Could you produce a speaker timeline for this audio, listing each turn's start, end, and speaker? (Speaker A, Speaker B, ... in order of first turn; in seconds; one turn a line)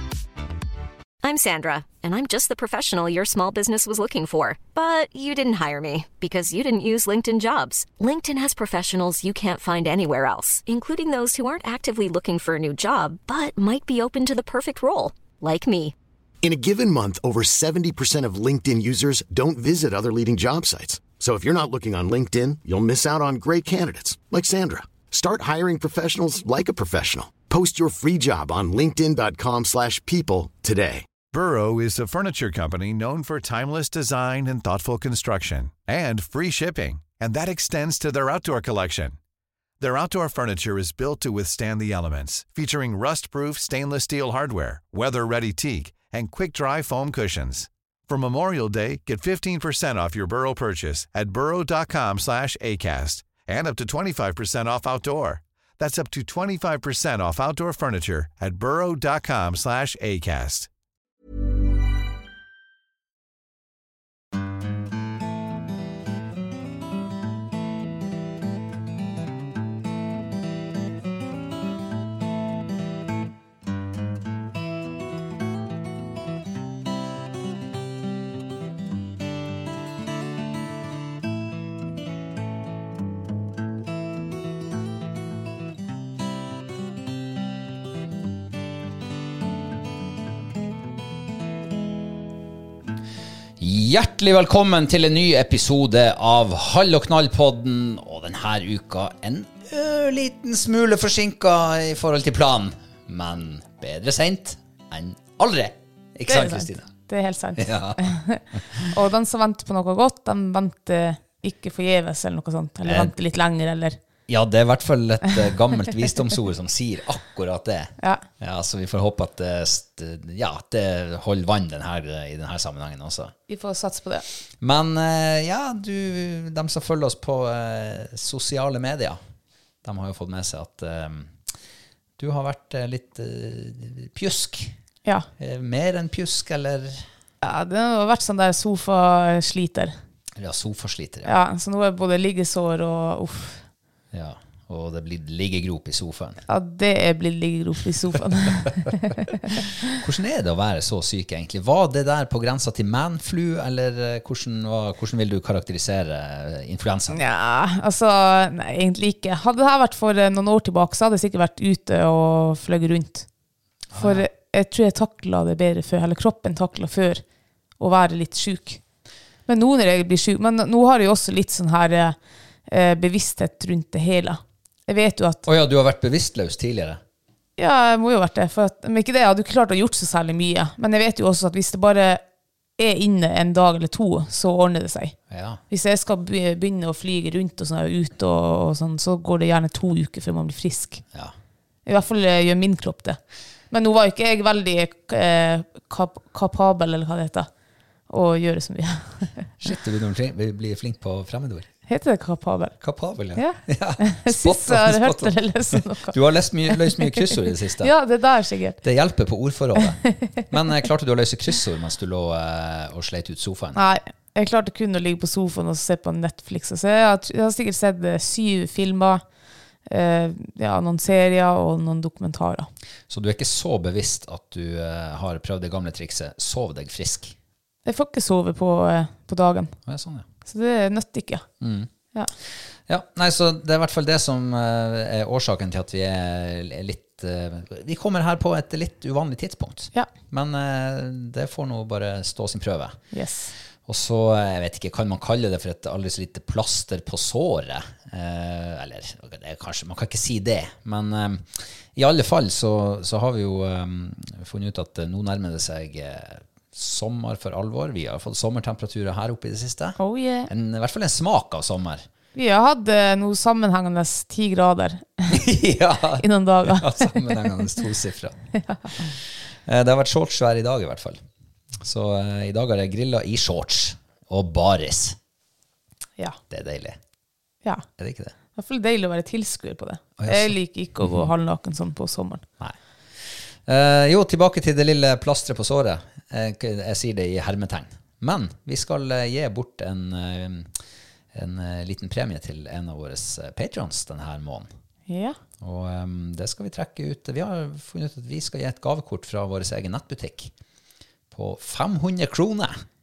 Speaker A: 1.2-15.9
Speaker B: 16.4-31.1
Speaker C: 31.3-39.2
Speaker C: 39.8-60.7
Speaker D: 93.6-106.9
Speaker E: 106.3-114.0
Speaker D: 107.6-108.1
Speaker D: 112.9-113.1
Speaker D: 114.3-123.3
Speaker E: 118.0-118.2
Speaker E: 123.5-124.3
Speaker D: 124.6-129.2
Speaker D: 129.8-131.4
Speaker D: 132.2-134.8
Speaker D: 135.4-137.1
Speaker E: 137.4-139.9
Speaker D: 140.4-141.3
Speaker E: 141.2-143.7
Speaker D: 144.1-146.4
Speaker E: 146.5-149.6
Speaker D: 149.5-157.2
Speaker E: 157.1-163.3
Speaker D: 163.9-164.3
Speaker E: 164.0-167.2
Speaker E: 167.8-168.8
Speaker E: 169.5-172.2
Speaker E: 172.7-175.5
Speaker D: 175.4-177.0
Speaker E: 177.6-182.2
Speaker E: 182.8-185.2
Speaker D: 185.3-185.6
Speaker E: 185.7-191.0
Speaker E: 191.9-193.2
Speaker E: 193.7-197.5
Speaker E: 198.1-199.5
Speaker D: 199.6-201.7
Speaker E: 201.9-202.8
Speaker D: 202.8-207.9
Speaker E: 203.4-206.2
Speaker E: 206.7-207.2
Speaker E: 207.8-208.8
Speaker D: 208.8-213.9
Speaker E: 213.8-219.2
Speaker E: 219.9-222.7
Speaker D: 223.1-227.4
Speaker E: 227.8-229.8
Speaker D: 229.9-230.3
Speaker E: 230.4-231.4
Speaker D: 231.6-231.9
Speaker D: 232.5-243.0
Speaker E: 243.1-243.5
Speaker D: 243.9-262.1
Speaker E: 260.0-260.5
Speaker E: 262.4-265.4
Speaker D: 265.3-268.4
Speaker E: 266.2-267.2
Speaker E: 268.6-269.1
Speaker D: 268.9-271.2
Speaker D: 271.8-275.2
Speaker D: 276.5-277.0
Speaker D: 278.0-278.3
Speaker E: 278.6-282.4
Speaker D: 280.2-281.3
Speaker D: 283.7-290.7
Speaker D: 291.3-294.7
Speaker E: 295.1-295.4
Speaker D: 295.6-300.5
Speaker D: 301.3-302.8